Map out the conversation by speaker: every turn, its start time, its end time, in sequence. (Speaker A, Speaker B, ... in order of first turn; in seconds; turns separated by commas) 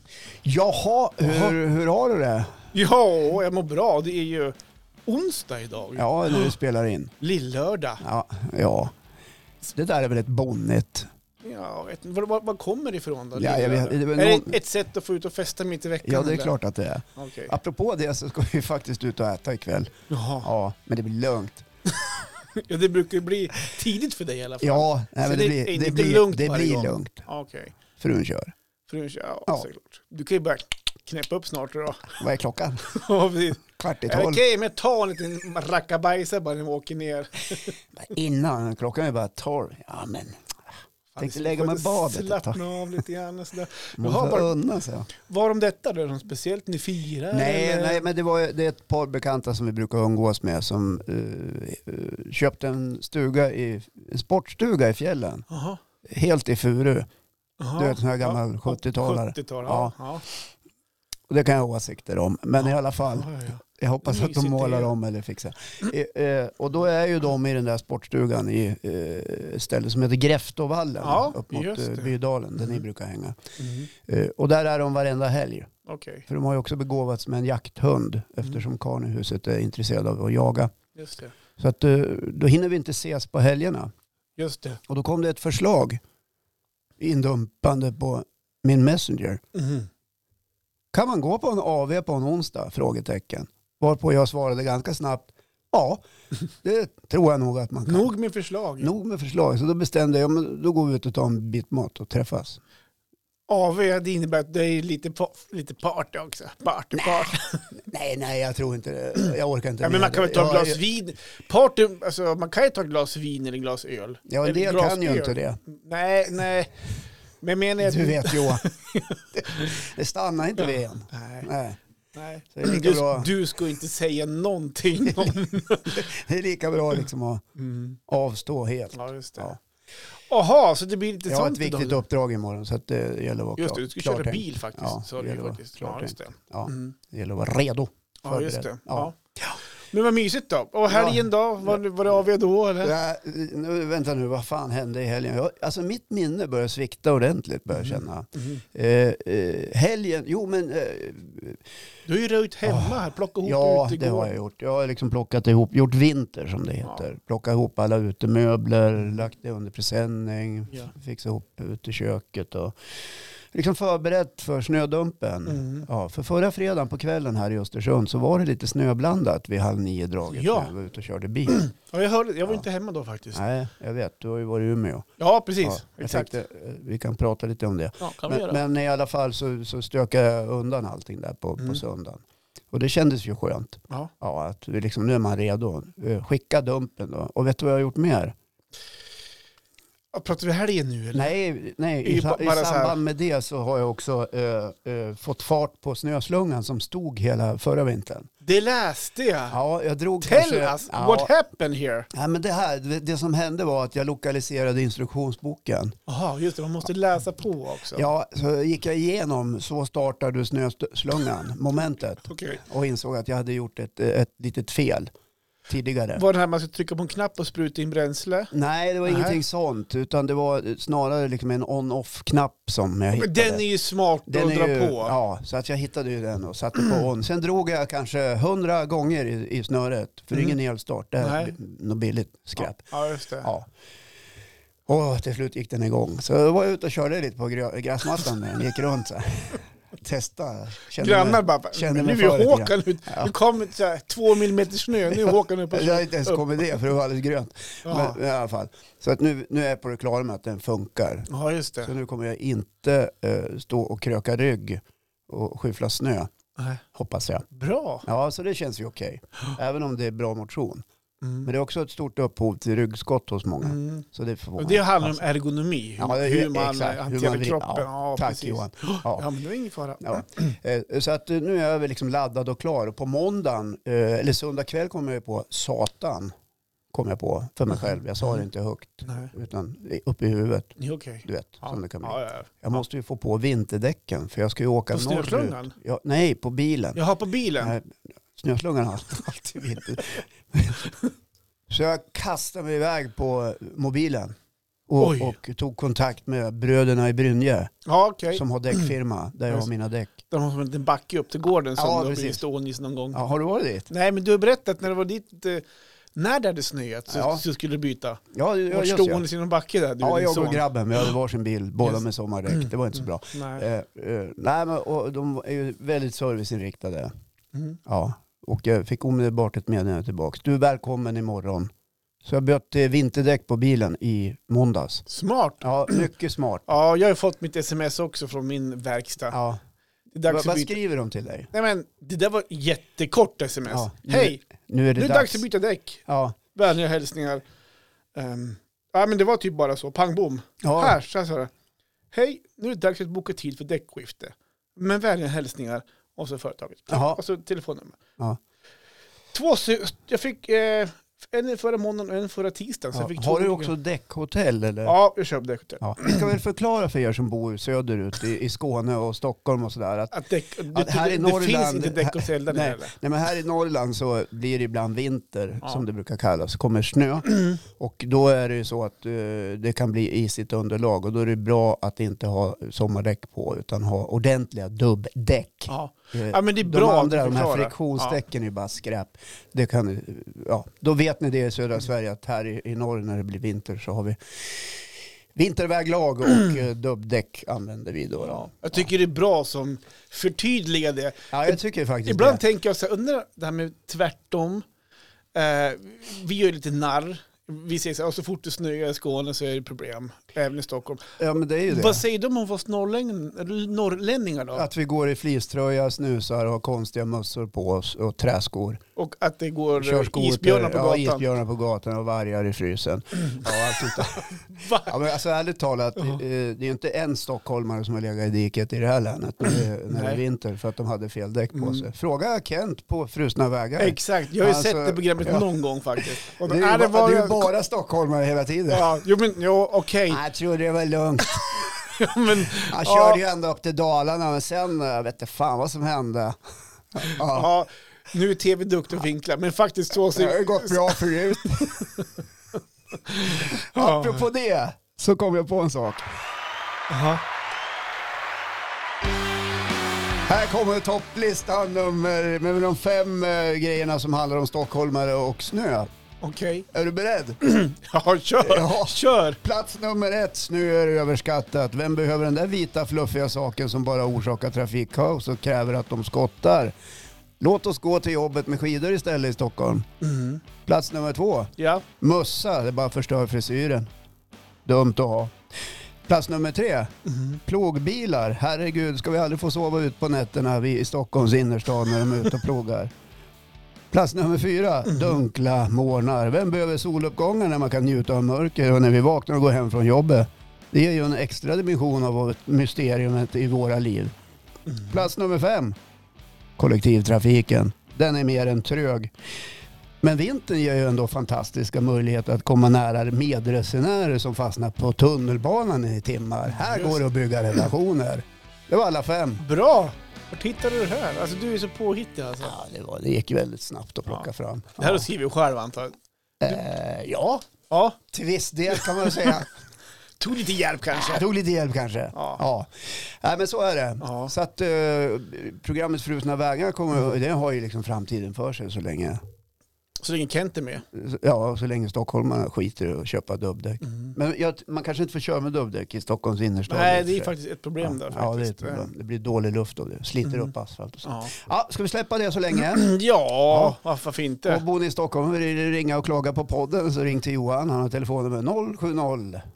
Speaker A: 0.4-2.6, Speaker B: 1.2-1.6, Speaker B: 2.7-4.5, Speaker B: 5.1-6.5, Speaker A: 6.0-7.1, Speaker B: 7.2-8.0, Speaker A: 8.0-8.9, Speaker A: 9.7-11.1, Speaker B: 11.4-16.5, Speaker A: 13.3-14.6, Speaker A: 16.0-21.6, Speaker B: 17.2-17.5, Speaker B: 20.1-20.5, Speaker B: 22.0-27.7, Speaker A: 24.6-27.2, Speaker A: 28.0-28.5, Speaker B: 28.9-32.2, Speaker A: 32.2-32.9, Speaker B: 32.9-37.8, Speaker A: 33.8-34.4, Speaker A: 38.0-40.4, Speaker B: 41.1-44.5, Speaker A: 41.2-42.6, Speaker A: 44.0-45.1, Speaker B: 45.2-48.0, Speaker A: 47.3-55.5, Speaker B: 55.5-55.8, Speaker A: 56.0-57.1, Speaker B: 57.6-60.2, Speaker A: 57.8-60.0, Speaker A: 61.3-73.4, Speaker B: 63.1-64.9, Speaker B: 71.0-72.1, Speaker B: 73.6-73.9, Speaker A: 74.0-75.7, Speaker B: 75.9-76.3, Speaker A: 76.3-80.7, Speaker B: 81.0-81.3, Speaker A: 81.6-83.9, Speaker B: 84.4-84.8, Speaker A: 84.9-86.0, Speaker A: 87.0-89.4, Speaker B: 89.5-89.9, Speaker A: 90.9-96.0, Speaker A: 96.6-98.1, Speaker B: 97.9-98.9, Speaker A: 98.8-102.6, Speaker B: 103.5-107.6, Speaker A: 107.0-110.8, Speaker B: 109.8-116.7, Speaker A: 114.3-115.6, Speaker B: 117.4-119.7, Speaker A: 117.8-118.6, Speaker A: 119.4-121.8, Speaker B: 120.6-121.5, Speaker B: 122.2-126.0, Speaker A: 122.5-123.3, Speaker A: 125.1-125.3, Speaker A: 125.9-127.4, Speaker B: 127.6-128.0, Speaker A: 128.1-129.6, Speaker B: 128.9-129.5, Speaker B: 130.3-132.0, Speaker A: 131.3-139.1, Speaker B: 133.6-137.0, Speaker B: 138.2-142.9, Speaker A: 140.9-141.8, Speaker A: 142.8-151.6, Speaker B: 147.8-148.6, Speaker B: 152.1-154.3, Speaker A: 152.7-162.8, Speaker A: 163.5-171.6, Speaker B: 165.5-165.9, Speaker B: 170.3-170.7, Speaker B: 171.5-173.4, Speaker A: 173.3-175.1, Speaker B: 175.2-176.3, Speaker A: 175.6-188.3, Speaker B: 178.0-178.6, Speaker B: 190.1-191.3, Speaker A: 191.1-198.3, Speaker B: 192.0-193.0, Speaker B: 198.4-199.6, Speaker A: 199.5-201.3, Speaker B: 200.2-202.1, Speaker A: 202.1-205.9, Speaker B: 206.1-208.1, Speaker A: 207.9-215.1, Speaker B: 212.3-212.6, Speaker A: 215.7-216.2, Speaker B: 216.2-218.5, Speaker A: 218.5-223.6, Speaker B: 219.1-219.4, Speaker B: 223.1-225.2, Speaker A: 224.3-232.8, Speaker B: 231.2-231.6, Speaker B: 232.6-233.5, Speaker A: 233.4-233.7, Speaker A: 234.9-243.3, Speaker B: 241.0-246.4, Speaker A: 245.2-251.3, Speaker B: 247.8-248.2, Speaker B: 251.3-251.9, Speaker A: 251.8-256.3, Speaker B: 256.6-256.8, Speaker A: 256.9-257.5, Speaker B: 257.5-258.1, Speaker A: 258.1-260.9, Speaker B: 261.2-261.5, Speaker A: 261.4-265.2, Speaker B: 263.6-264.0, Speaker B: 264.6-270.5, Speaker A: 266.0-269.3, Speaker A: 270.0-276.3, Speaker A: 276.9-287.0, Speaker B: 279.1-279.3, Speaker B: 280.8-282.8, Speaker B: 284.9-285.7, Speaker B: 287.0-287.8, Speaker A: 287.6-290.8, Speaker A: 291.7-294.4, Speaker A: 294.9-297.7, Speaker B: 295.0-295.4, Speaker B: 297.9-298.9, Speaker A: 298.3-300.2, Speaker B: 300.3-303.2, Speaker A: 301.8-302.4, Speaker A: 303.1-303.9, Speaker B: 303.9-305.6, Speaker B: 306.1-310.6, Speaker A: 307.1-307.4, Speaker A: 308.3-309.2, Speaker A: 310.0-317.1, Speaker B: 311.9-312.7, Speaker B: 313.3-313.6, Speaker A: 317.9-321.7, Speaker A: 322.2-325.1, Speaker B: 325.1-326.1, Speaker A: 325.6-326.7, Speaker B: 326.7-329.4, Speaker A: 329.3-329.6, Speaker B: 330.1-330.8, Speaker A: 330.3-331.5, Speaker B: 331.5-334.4, Speaker A: 333.7-335.4, Speaker B: 335.0-337.4, Speaker A: 336.1-336.4, Speaker B: 338.1-341.5, Speaker A: 340.6-341.0, Speaker B: 342.1-348.0, Speaker A: 346.9-347.2, Speaker B: 349.3-353.7, Speaker A: 352.9-355.0, Speaker B: 354.9-356.3, Speaker A: 355.8-360.1, Speaker B: 360.1-362.9, Speaker A: 360.7-384.8, Speaker B: 367.3-367.6, Speaker B: 375.7-378.2, Speaker A: 385.4-388.8, Speaker B: 388.2-394.6, Speaker A: 391.3-392.4, Speaker B: 395.4-401.0, Speaker A: 401.2-402.0, Speaker B: 401.7-404.7, Speaker A: 404.5-408.8, Speaker B: 409.0-411.3, Speaker A: 409.8-428.9, Speaker B: 413.2-415.0, Speaker B: 419.9-420.2, Speaker B: 421.5-421.9, Speaker B: 423.8-427.5, Speaker B: 428.7-430.2, Speaker A: 430.1-431.8, Speaker B: 431.5-433.2, Speaker A: 432.6-436.4, Speaker A: 436.9-437.5, Speaker B: 437.0-442.1, Speaker A: 440.1-441.9, Speaker B: 443.1-444.3, Speaker A: 443.3-446.1, Speaker B: 446.9-447.2, Speaker A: 450.2-455.9, Speaker B: 456.2-456.7, Speaker A: 456.7-457.4, Speaker B: 457.4-459.4, Speaker A: 458.4-466.7, Speaker A: 467.4-469.9, Speaker B: 470.0-470.4, Speaker A: 470.7-473.9, Speaker B: 471.6-471.9, Speaker A: 474.6-475.4, Speaker A: 476.1-476.9, Speaker B: 477.1-477.4, Speaker A: 477.4-482.9, Speaker A: 483.9-494.1, Speaker B: 484.9-485.1, Speaker A: 494.9-495.8, Speaker A: 496.6-499.1, Speaker A: 500.0-509.4, Speaker B: 506.5-507.0, Speaker B: 509.4-512.5, Speaker A: 512.4-515.1, Speaker B: 514.1-516.0, Speaker A: 516.4-517.5, Speaker B: 517.7-518.0, Speaker A: 518.1-519.5, Speaker B: 518.7-519.4, Speaker B: 520.2-521.3, Speaker A: 521.0-529.2, Speaker B: 522.1-522.4, Speaker B: 524.0-524.3, Speaker B: 530.0-530.8, Speaker A: 530.9-542.9, Speaker B: 533.9-534.1, Speaker B: 536.7-538.9, Speaker B: 540.3-540.5, Speaker B: 541.0-541.3, Speaker B: 542.6-544.6, Speaker A: 543.5-543.8, Speaker A: 544.5-549.4